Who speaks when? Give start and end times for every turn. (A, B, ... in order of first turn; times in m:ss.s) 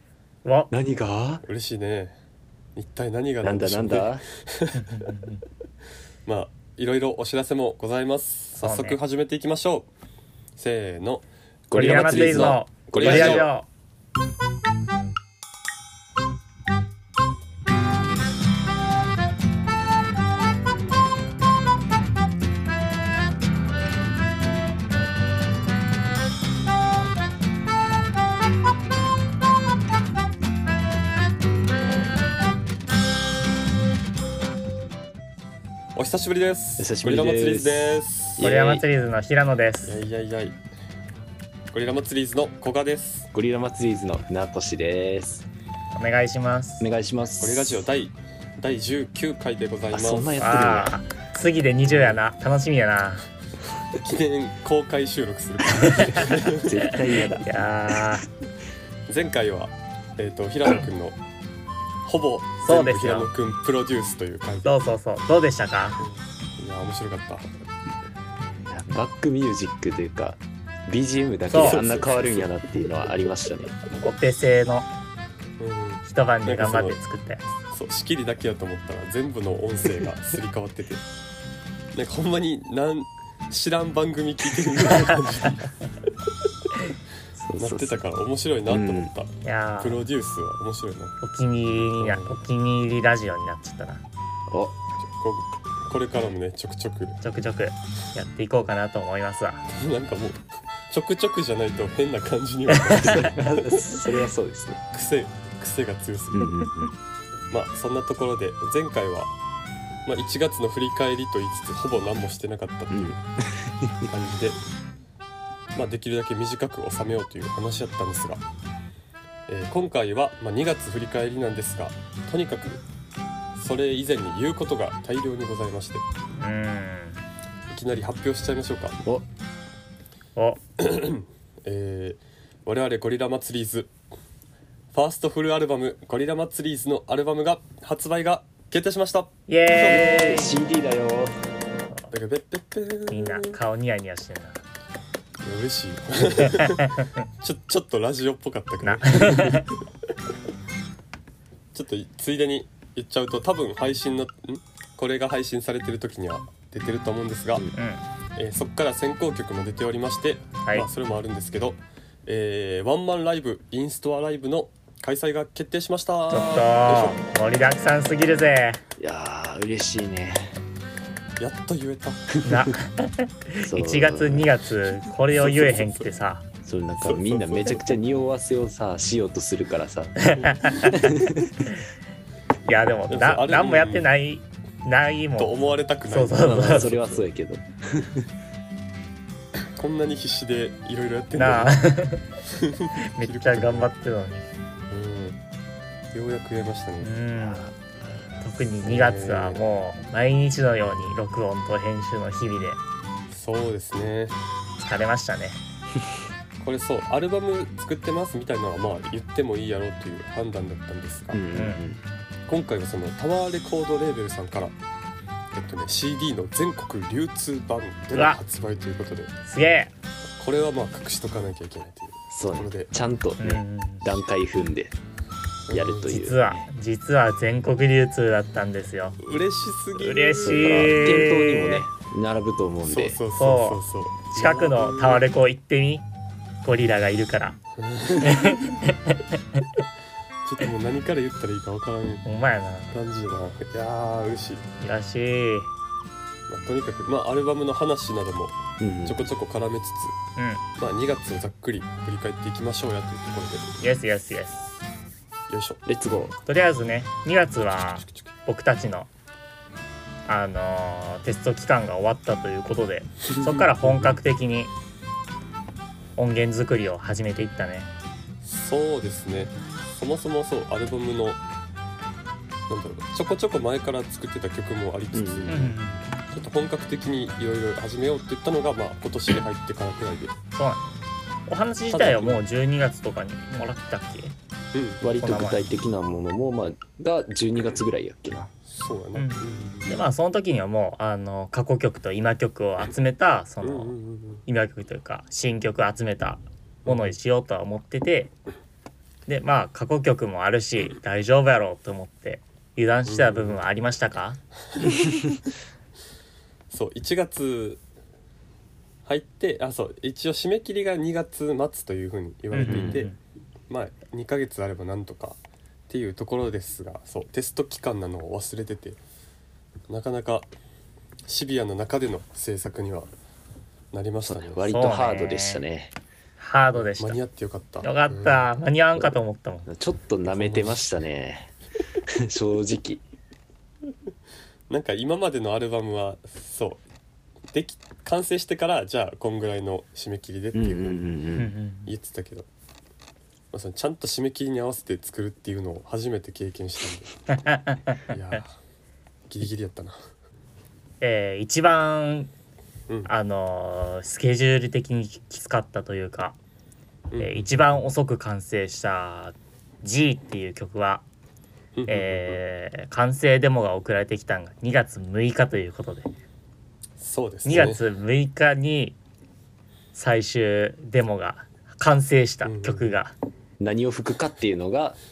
0:00.4-0:00.7 A
0:00.7-0:01.4 B
0:01.4-0:02.1 C
0:02.8-0:05.0 C
0:03.4-0:04.2 B
0:04.8-0:05.4 A
0:06.2-0:09.9 C
0:08.6-0:09.0 A
0:10.6-0:13.5 C
0:11.7-0:13.5 B
0:11.7-0:13.7 A
0:36.0-0:38.4 C
0:36.8-0:38.8 B
0:38.4-0:40.0 A
0:39.8-0:40.6 C
0:41.7-0:43.3 C
0:43.3-0:45.4 B
0:45.9-0:46.9 A
0:46.8-0:47.8 B
0:47.4-0:50.4 C
0:49.9-0:50.9 B
0:50.4-0:53.3 A
0:51.8-0:52.2 C
0:54.0-0:56.9 C
0:55.7-0:58.2 A
0:56.6-0:57.5 B
0:59.1-1:01.2 C
1:02.0-1:04.8 C
1:02.6-1:03.3 A
1:04.6-1:06.0 A
1:06.0-1:07.4 C
1:08.7-1:13.8 B
1:11.5-1:11.8 A
1:11.5-1:12.5 C
1:14.0-1:14.9 A
1:15.6-1:17.0 C
1:16.0-1:17.4 A
1:17.7-1:21.0 C
1:21.9-1:25.7 C
1:27.4-1:28.0 B
1:27.6-1:31.2 C
1:28.7-1:29.1 B
1:29.4-1:30.0 A
1:31.2-1:34.0 A
1:32.0-1:32.4 C
1:34.5-1:34.7 B
1:35.0-1:37.2 C
1:37.2-1:39.6 A
1:39.7-1:44.0 C
1:42.7-1:43.3 A
1:42.9-1:44.8 B
1:44.9-1:46.5 C
1:46.3-1:46.9 B
1:47.5-1:49.3 C
1:50.0-1:53.2 C
1:52.9-1:54.1 B
1:54.1-1:54.6 C
1:55.7-1:58.4 C
1:59.5-2:02.8 C
2:03.5-2:06.0 C
2:06.4-2:07.2 A
2:07.7-2:09.0 C
2:10.8-2:13.9 C
2:14.9-2:20.2 C
2:19.5-2:20.6 A
2:19.7-2:21.3 B
2:22.1-2:23.6 C
2:23.1-2:24.6 A
2:25.4-2:29.7 C
2:26.5-2:27.1 A
2:28.8-2:29.7 A
2:31.7-2:37.7 C
2:37.7-2:38.0 A
2:38.4-2:47.2 C
2:46.3-2:48.8 A
2:49.0-2:50.5 B
2:51.4-2:52.3 C
2:52.4-2:52.7 B
2:52.4-2:56.4 A
2:53.6-2:54.5 B
2:55.3-2:56.1 C
2:56.6-3:00.2 B
2:57.0-2:57.9 C
3:00.2-3:01.8 A
3:00.8-3:01.6 B
3:02.6-3:06.9 A
3:03.1-3:04.1 C
3:05.4-3:07.2 C
3:06.4-3:08.3 B
3:09.8-3:11.8 C
3:11.4-3:12.2 A
3:12.5-3:13.9 C
3:13.1-3:14.4 A
3:14.9-3:15.4 C
3:16.1-3:17.1 C
3:17.0-3:17.7 A
3:17.4-3:17.8 B
3:18.4-3:22.8 A
3:18.8-3:19.6 C
3:23.3-3:24.4 C
3:24.8-3:25.6 A
3:26.6-3:31.4 C
3:31.3-3:32.0 B
3:31.5-3:31.8 A
3:32.5-3:34.7 C
3:35.5-3:39.3 C
3:38.1-3:38.4 A
3:39.5-3:39.9 A
3:40.4-3:42.9 C
3:42.3-3:44.9 B
3:43.4-3:44.2 A
3:45.7-3:46.2 C
3:45.7-3:46.7 B
3:46.1-3:49.2 A
3:49.2-3:51.2 C
3:50.0-3:51.8 A
3:50.4-3:53.2 B
3:52.8-3:55.2 C
3:53.3-3:53.8 A
3:54.3-3:56.0 A
3:56.6-3:57.6 A
3:57.8-3:58.8 C
3:58.2-3:59.6 A
4:00.4-4:02.2 C
4:02.2-4:03.0 A
4:02.9-4:04.7 C
4:04.8-4:05.7 A
4:06.5-4:10.2 C
4:08.8-4:09.2 B
4:10.4-4:10.6 A
4:10.8-4:13.8 C
4:13.8-4:14.6 A
4:15.5-4:15.8 C
4:15.8-4:16.4 B
4:16.5-4:19.1 A
4:18.0-4:18.3 C
4:20.3-4:24.7 A
4:23.3-4:24.2 C
4:26.2-4:27.9 A
4:28.4-4:31.4 C
4:32.7-4:35.8 C
4:35.1-4:35.7 B
4:35.5-4:36.1 A
4:36.3-4:40.4 C
4:40.5-4:40.8 A
4:41.5-4:44.3 A
4:41.9-4:42.4 C
4:44.7-4:45.0 C
4:45.0-4:48.5 B
4:45.2-4:45.7 A
4:48.7-4:49.9 C
4:49.1-4:53.9 A
4:53.6-4:54.4 C
4:54.4-4:58.3 A
4:56.8-4:57.1 C
4:59.3-5:04.4 A
5:03.0-5:03.6 C
5:06.7-5:07.8 C
5:09.0-5:13.1 C
5:12.5-5:13.2 A
5:12.6-5:13.1 B
5:13.7-5:19.0 C
5:19.9-5:20.5 C
5:21.3-5:23.1 C
5:23.9-5:24.8 C
5:24.2-5:25.9 B
5:24.7-5:25.6 A
5:26.4-5:27.2 A
5:26.8-5:28.5 C
5:27.8-5:29.7 A
5:29.7-5:31.5 B
5:30.2-5:30.9 C
5:32.2-5:33.0 B
5:34.7-5:36.8 C
5:37.5-5:41.0 C
5:40.5-5:41.5 B
5:41.4-5:41.9 A
5:41.8-5:42.5 C
5:43.5-5:47.1 C
5:47.3-5:48.1 A
5:48.1-5:48.5 C
5:49.3-5:50.0 C
5:51.0-5:52.3 A
5:53.1-5:56.4 A
5:57.1-5:57.8 C
5:57.2-6:01.0 A
6:01.8-6:02.4 C
6:01.9-6:06.1 A
6:07.0-6:07.8 C
6:07.4-6:09.0 A
6:09.9-6:13.1 A
6:12.4-6:12.9 C
6:13.6-6:15.0 B